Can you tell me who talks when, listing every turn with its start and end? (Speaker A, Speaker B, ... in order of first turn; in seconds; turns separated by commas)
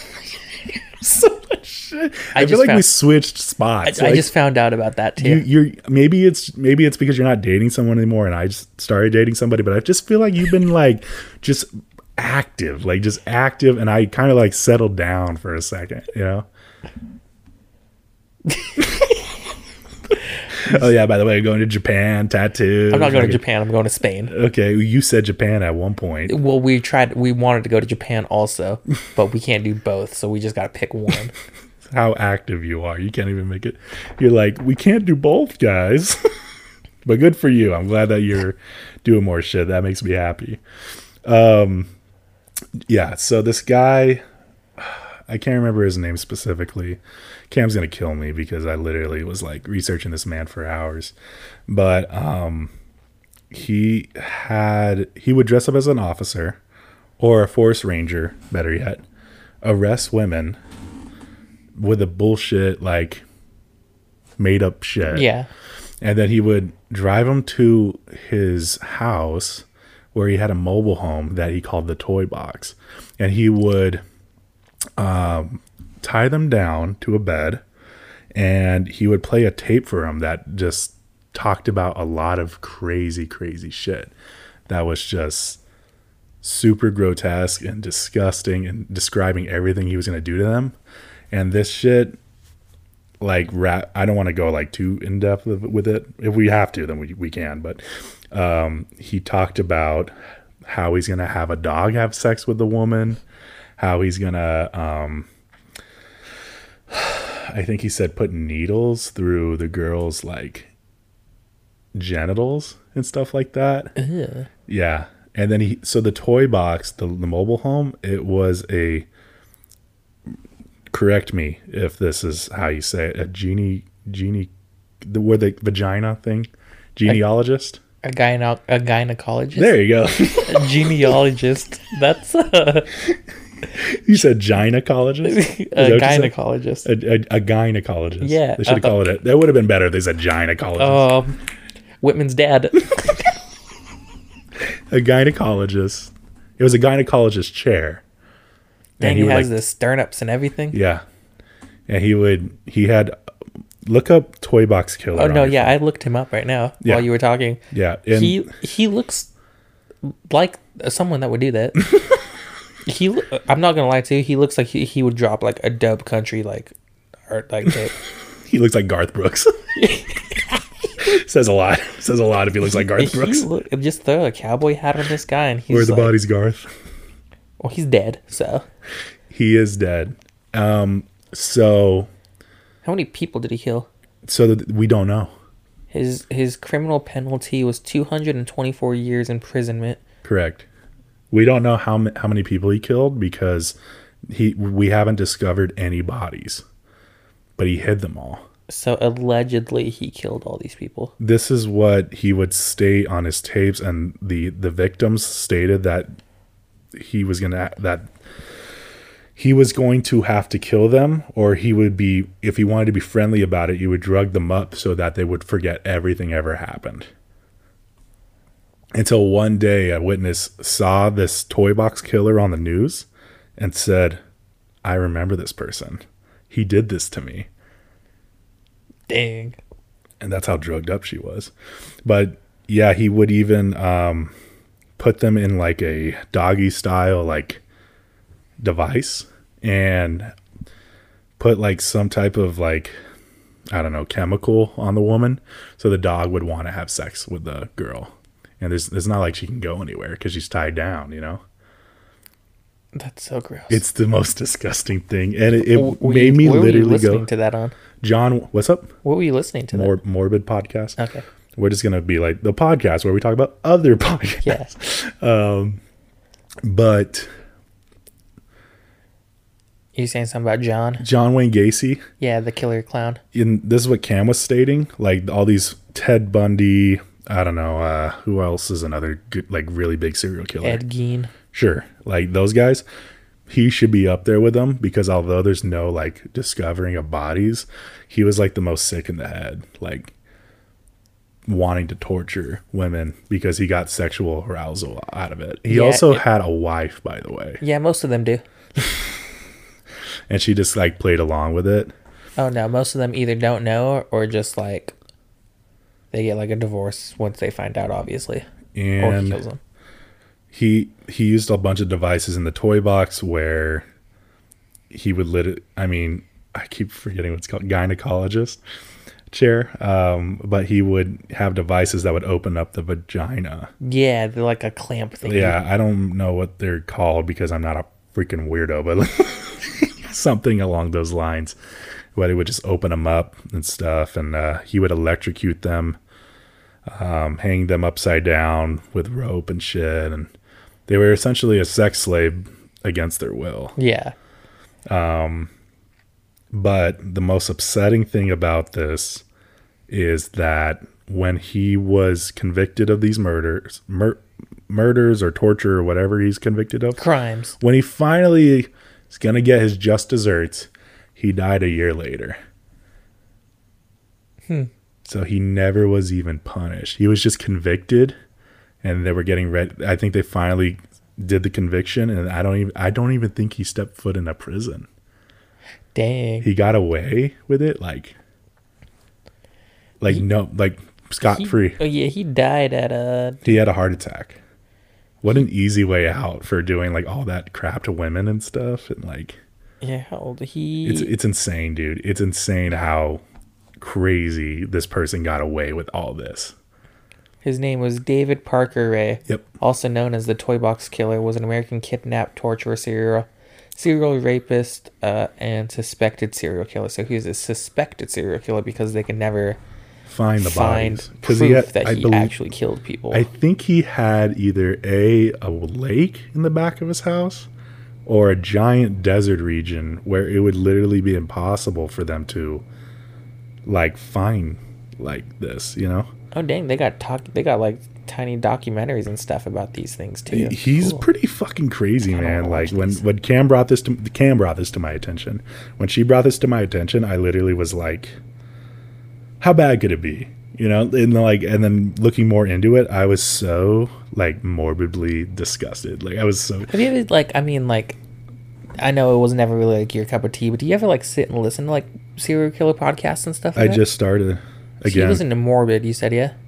Speaker A: 1.0-4.3, Speaker B: 2.3-2.9, Speaker B: 3.8-5.4, Speaker A: 5.2-16.5, Speaker A: 20.5-23.4, Speaker B: 22.9-24.3, Speaker A: 24.3-26.4, Speaker B: 26.3-31.3, Speaker A: 31.9-36.2, Speaker A: 37.0-40.6, Speaker A: 41.2-41.9, Speaker A: 42.9-44.2, Speaker A: 44.8-51.1, Speaker A: 51.7-52.7, Speaker A: 53.5-56.6, Speaker A: 57.2-59.0, Speaker A: 59.6-60.6, Speaker A: 61.7-63.2, Speaker A: 64.4-65.3, Speaker B: 65.1-65.5, Speaker A: 66.0-74.0, Speaker A: 75.0-77.6, Speaker A: 78.3-84.1, Speaker A: 84.7-85.6, Speaker A: 86.4-90.8, Speaker A: 91.3-92.2, Speaker A: 93.2-100.1, Speaker A: 100.6-103.2, Speaker A: 103.8-105.3, Speaker A: 106.9-110.7, Speaker A: 111.9-113.9, Speaker B: 114.0-114.5, Speaker A: 114.7-119.1, Speaker A: 120.9-124.5, Speaker A: 125.0-127.8, Speaker B: 128.0-129.8, Speaker A: 129.5-131.2, Speaker B: 130.4-132.9, Speaker A: 133.7-136.3, Speaker B: 135.2-136.9, Speaker A: 136.8-141.1, Speaker B: 138.2-139.0, Speaker B: 140.8-141.4, Speaker B: 142.0-143.2, Speaker A: 144.9-148.0, Speaker B: 149.0-150.8, Speaker A: 149.0-149.5, Speaker A: 150.7-151.0, Speaker A: 151.9-153.1, Speaker A: 153.8-155.8, Speaker B: 155.1-157.6, Speaker A: 157.7-158.5, Speaker B: 158.1-159.3, Speaker B: 160.0-161.8, Speaker B: 162.8-166.7, Speaker B: 167.3-167.9, Speaker A: 168.5-169.6, Speaker B: 169.8-170.6, Speaker A: 171.0-173.5, Speaker B: 172.7-176.2, Speaker A: 175.7-176.7, Speaker B: 177.6-178.7, Speaker A: 179.3-182.1, Speaker B: 182.8-183.9, Speaker A: 184.2-185.3, Speaker B: 185.9-190.0, Speaker A: 190.2-190.7, Speaker A: 191.3-193.8, Speaker A: 194.3-196.6, Speaker A: 197.6-198.4, Speaker B: 198.7-201.1, Speaker A: 201.2-206.1, Speaker A: 206.9-208.1, Speaker A: 209.3-217.1, Speaker A: 218.9-224.2, Speaker A: 224.8-227.5, Speaker B: 229.1-229.6, Speaker A: 230.2-231.5, Speaker A: 232.0-234.3, Speaker A: 235.0-237.6, Speaker A: 238.6-240.3, Speaker A: 241.4-242.9, Speaker A: 243.7-251.4, Speaker B: 252.9-253.8, Speaker A: 253.7-257.3, Speaker B: 255.6-257.8, Speaker A: 258.0-258.9, Speaker B: 259.0-259.9, Speaker A: 259.7-261.0, Speaker B: 261.0-261.2, Speaker A: 261.6-265.8, Speaker B: 264.4-264.7, Speaker A: 266.6-267.3, Speaker B: 269.9-271.0, Speaker A: 271.0-272.0, Speaker B: 272.2-273.2, Speaker A: 273.3-280.8, Speaker B: 280.6-281.3, Speaker A: 281.5-282.8, Speaker A: 283.5-290.1, Speaker A: 291.5-297.6, Speaker B: 295.7-296.2, Speaker B: 297.6-298.4, Speaker A: 298.8-299.0, Speaker A: 300.3-301.9, Speaker B: 302.4-304.9, Speaker B: 306.1-308.4, Speaker A: 308.7-309.4, Speaker B: 309.0-309.6, Speaker A: 310.5-313.9, Speaker A: 314.9-318.6, Speaker A: 319.3-323.7, Speaker B: 323.8-325.6, Speaker A: 325.2-331.6, Speaker A: 332.1-336.0, Speaker A: 336.9-340.3, Speaker A: 340.9-343.8, Speaker B: 343.8-344.1, Speaker A: 344.9-345.5, Speaker A: 346.5-349.2, Speaker A: 349.9-357.1, Speaker B: 357.0-357.5, Speaker A: 357.6-362.4, Speaker A: 365.0-368.1, Speaker A: 368.8-374.9, Speaker B: 375.9-376.5, Speaker A: 376.4-378.2, Speaker A: 380.0-381.8, Speaker B: 381.3-383.6, Speaker A: 383.4-384.4, Speaker A: 385.2-389.4, Speaker B: 389.8-391.1, Speaker A: 390.8-393.2, Speaker A: 393.8-396.5, Speaker B: 397.4-409.6, Speaker A: 410.1-412.3, Speaker B: 410.4-413.3, Speaker A: 413.1-417.5, Speaker A: 418.1-422.6, Speaker A: 423.6-426.1, Speaker B: 426.3-431.1, Speaker A: 430.3-438.2, Speaker B: 432.1-433.0, Speaker A: 439.4-446.7, Speaker B: 446.7-448.0, Speaker B: 448.8-453.8, Speaker A: 453.6-455.2, Speaker B: 454.8-456.3